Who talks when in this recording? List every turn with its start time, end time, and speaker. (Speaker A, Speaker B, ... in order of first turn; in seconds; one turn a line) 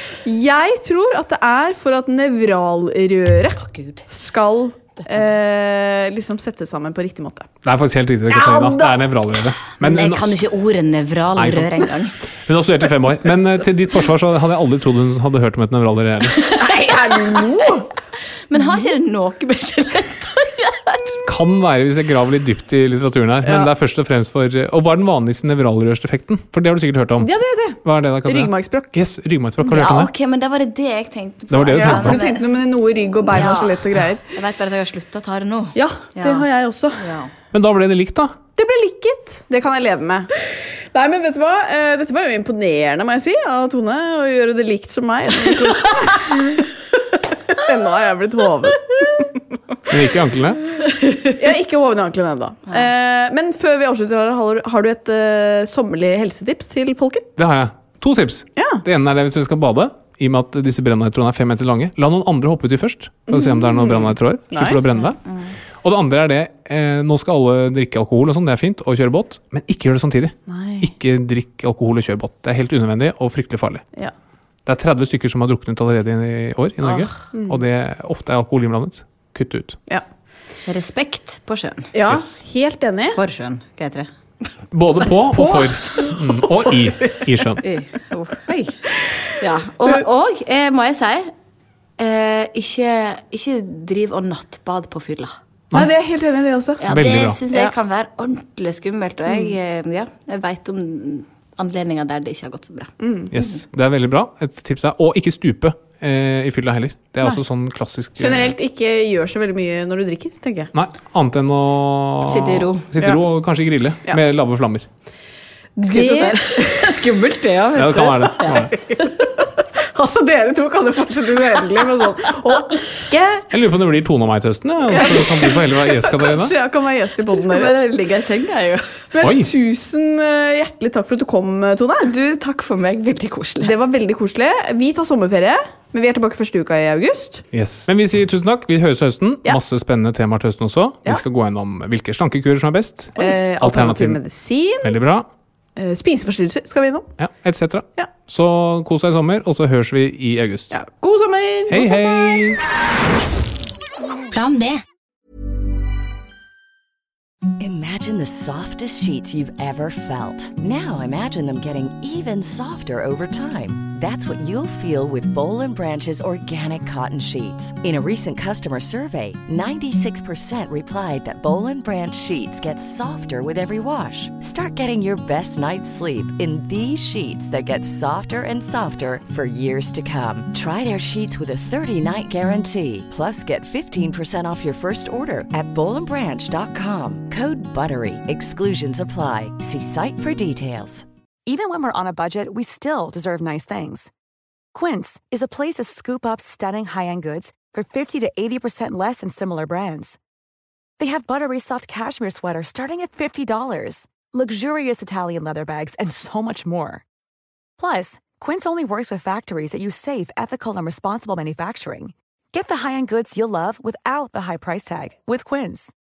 Speaker A: 0.2-7.5
Speaker B: 3.6-4.0
Speaker C: 7.6-10.4
Speaker A: 8.4-8.8
Speaker B: 9.7-12.1
Speaker C: 11.4-11.9
Speaker C: 12.5-16.4
Speaker B: 16.4-17.8
Speaker A: 16.6-17.9
Speaker B: 18.5-21.2
Speaker C: 21.2-27.3
Speaker A: 23.4-23.7
Speaker A: 27.2-29.0
Speaker C: 27.8-30.1
Speaker B: 29.6-32.5
Speaker C: 31.5-32.2
Speaker A: 31.7-34.2
Speaker B: 33.3-36.5
Speaker A: 35.8-37.0
Speaker B: 37.0-37.3
Speaker C: 37.5-38.3
Speaker A: 38.6-40.3
Speaker A: 40.9-46.7
Speaker A: 47.3-48.8
Speaker C: 49.9-50.6
Speaker A: 51.4-57.4
Speaker C: 57.4-65.2
Speaker A: 58.6-58.8
Speaker A: 63.3-65.0
Speaker C: 65.8-73.8
Speaker A: 70.5-70.9
Speaker C: 74.7-79.8
Speaker B: 76.8-77.1
Speaker A: 77.3-77.6
Speaker B: 80.7-81.9
Speaker A: 81.9-83.2
Speaker B: 83.1-84.1
Speaker C: 84.7-87.6
Speaker B: 87.6-88.7
Speaker B: 89.4-91.3
Speaker B: 92.0-95.3
Speaker A: 95.7-96.8
Speaker B: 96.8-103.5
Speaker C: 96.9-97.4
Speaker A: 103.0-103.3
Speaker C: 103.3-108.5
Speaker A: 108.2-110.7
Speaker C: 110.7-114.9
Speaker B: 112.3-112.9
Speaker A: 115.8-116.4
Speaker B: 115.8-119.0
Speaker C: 117.8-118.7
Speaker A: 120.0-123.5
Speaker C: 123.5-126.5
Speaker A: 124.9-125.6
Speaker A: 126.2-127.9
Speaker B: 127.3-128.9
Speaker A: 129.1-132.1
Speaker C: 129.2-129.5
Speaker B: 132.0-133.7
Speaker A: 133.6-137.4
Speaker C: 137.5-144.2
Speaker A: 143.2-144.9
Speaker C: 144.8-145.3
Speaker A: 145.8-147.1
Speaker C: 147.2-150.7
Speaker A: 150.7-152.2
Speaker C: 151.7-152.6
Speaker B: 154.3-154.8
Speaker D: 157.6-191.1
Speaker E: 191.5-194.1
Speaker E: 194.7-200.2
Speaker E: 201.0-207.0
Speaker E: 207.8-215.9